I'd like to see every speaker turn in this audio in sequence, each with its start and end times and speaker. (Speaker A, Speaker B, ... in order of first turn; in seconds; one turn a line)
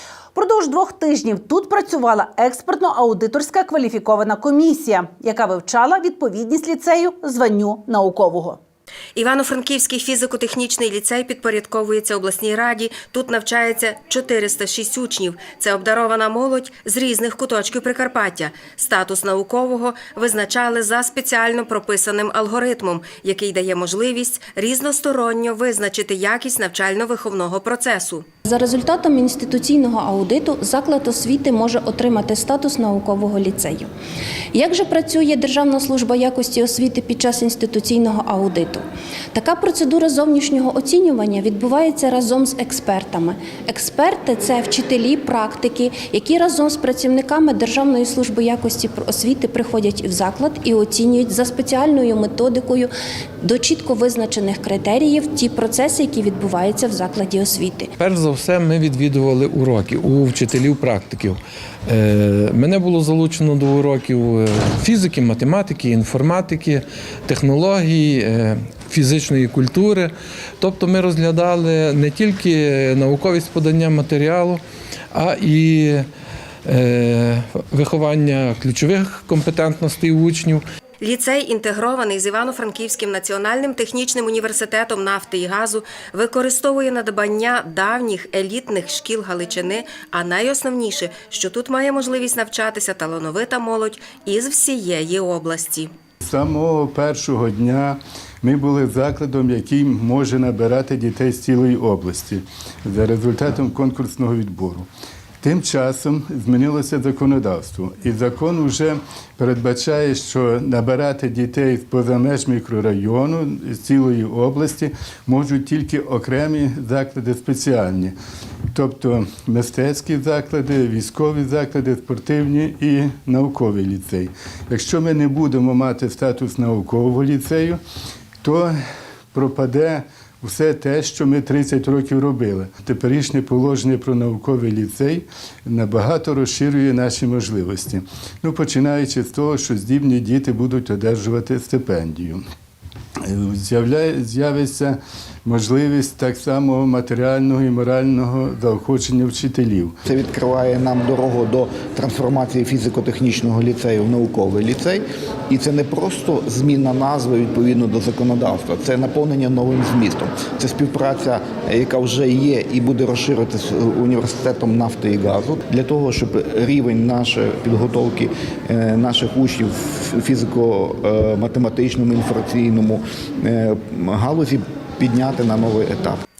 Speaker A: 0.3-8.6
Speaker B: 9.2-28.2
Speaker C: 28.5-33.9
Speaker C: 34.5-57.9
Speaker D: 58.0-74.6
Speaker D: 75.1-76.1
Speaker D: 76.7-80.6
Speaker B: 81.0-95.9
Speaker E: 96.2-104.9
Speaker E: 105.4-118.2
Speaker E: 118.7-127.8
Speaker E: 128.4-128.7
Speaker E: 129.3-142.4
Speaker E: 143.2-150.0
Speaker F: 150.1-176.2